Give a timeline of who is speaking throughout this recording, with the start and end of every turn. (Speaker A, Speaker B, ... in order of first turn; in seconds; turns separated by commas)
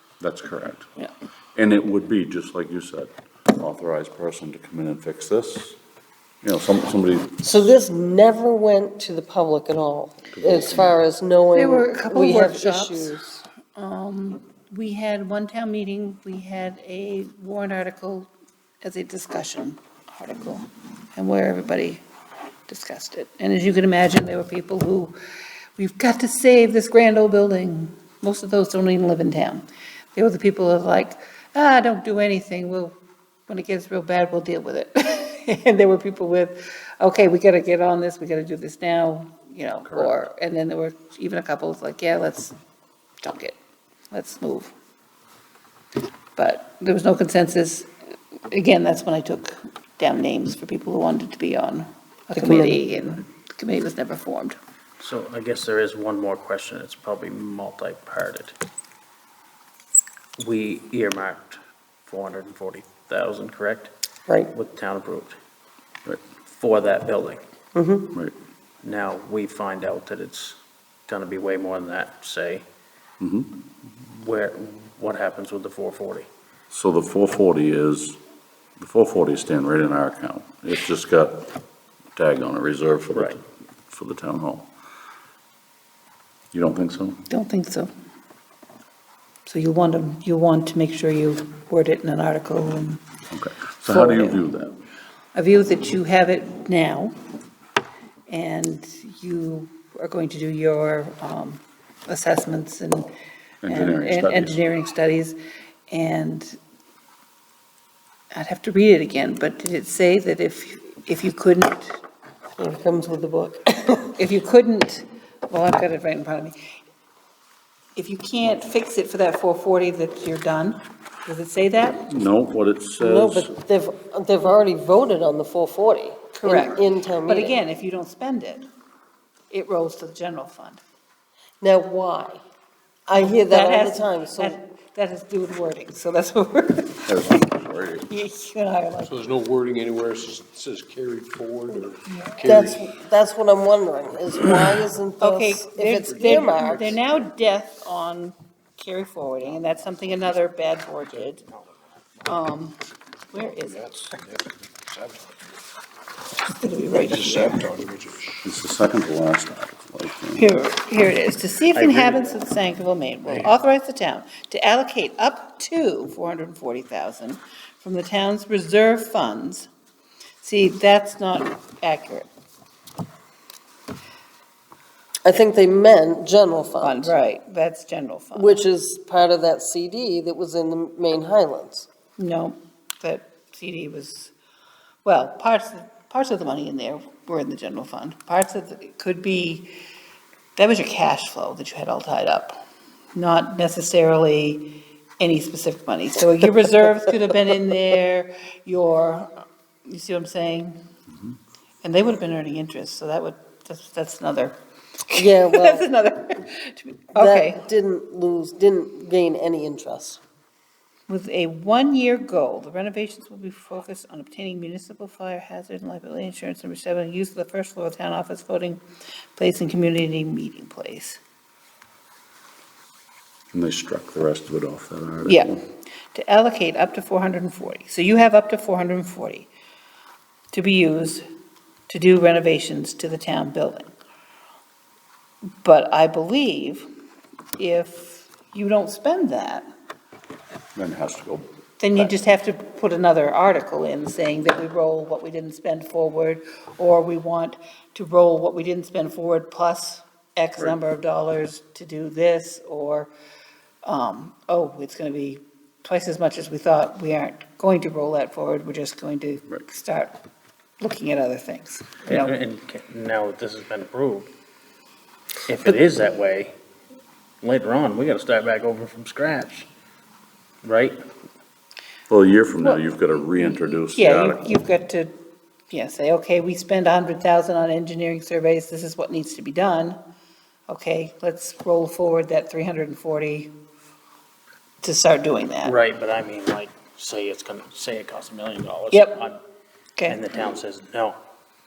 Speaker A: 0.2-0.9, Speaker A: 1.6-5.8, Speaker A: 6.4-7.6, Speaker B: 7.4-13.3, Speaker A: 10.3-10.9, Speaker C: 11.5-18.3, Speaker C: 18.8-22.0, Speaker C: 22.7-25.2, Speaker C: 25.8-29.6, Speaker C: 30.1-33.0, Speaker C: 33.5-42.5, Speaker A: 39.9-40.2, Speaker C: 43.2-43.6, Speaker C: 44.1-44.7, Speaker C: 46.4-47.9, Speaker C: 48.5-54.6, Speaker B: 52.4-52.8, Speaker D: 55.0-58.6, Speaker D: 60.4-63.9, Speaker D: 64.5-65.4, Speaker D: 66.5-67.4, Speaker B: 67.8-68.1, Speaker D: 68.8-72.7, Speaker A: 73.2-73.5, Speaker D: 74.0-76.3, Speaker A: 76.7-78.2, Speaker A: 78.8-81.5, Speaker A: 82.2-84.7, Speaker D: 83.1-83.4, Speaker A: 86.5-87.2, Speaker C: 87.3-87.9, Speaker C: 89.5-93.0, Speaker A: 93.3-94.8, Speaker C: 93.8-94.5, Speaker C: 95.3-97.2, Speaker C: 98.3-103.1, Speaker A: 103.6-104.6, Speaker C: 103.7-105.4, Speaker C: 105.9-106.6, Speaker C: 108.3-112.0, Speaker B: 112.6-114.2, Speaker C: 114.2-116.6, Speaker C: 118.0-122.1, Speaker A: 122.1-123.5, Speaker B: 123.0-127.6, Speaker C: 126.3-128.7, Speaker C: 129.5-130.8, Speaker B: 131.6-132.4, Speaker B: 133.1-134.6, Speaker C: 133.2-139.2, Speaker A: 137.1-138.1, Speaker E: 139.0-142.9, Speaker C: 142.1-142.7, Speaker B: 142.4-147.0, Speaker C: 145.2-151.4, Speaker E: 146.2-146.6, Speaker C: 152.2-152.8, Speaker C: 153.3-154.0, Speaker E: 153.6-155.4, Speaker C: 156.4-157.7, Speaker E: 156.9-158.4, Speaker A: 158.4-160.4, Speaker C: 160.3-169.7, Speaker D: 161.8-162.4, Speaker C: 170.4-172.3, Speaker B: 175.2-177.2, Speaker C: 176.8-178.7, Speaker B: 178.3-181.9, Speaker C: 182.2-184.3, Speaker C: 185.0-189.7, Speaker C: 190.6-192.6, Speaker C: 193.2-199.3, Speaker C: 199.9-200.8, Speaker C: 201.8-204.6, Speaker C: 205.1-207.6, Speaker B: 205.1-205.9, Speaker B: 207.2-210.2, Speaker C: 211.1-218.8, Speaker C: 219.3-221.2, Speaker A: 223.5-225.6, Speaker C: 225.2-225.5, Speaker C: 226.1-229.5, Speaker C: 230.5-231.2, Speaker C: 231.9-233.9, Speaker C: 235.6-236.9, Speaker C: 237.6-239.7, Speaker A: 240.8-241.5, Speaker C: 241.8-253.1, Speaker C: 253.8-260.2, Speaker C: 260.8-262.3, Speaker D: 262.1-264.3, Speaker D: 265.4-266.6, Speaker D: 267.4-269.7, Speaker D: 270.6-271.0, Speaker A: 272.1-274.6, Speaker C: 273.4-275.2, Speaker C: 275.7-280.0, Speaker C: 280.7-283.5, Speaker C: 284.8-285.8, Speaker D: 285.6-289.4, Speaker C: 288.9-289.2, Speaker D: 290.1-291.2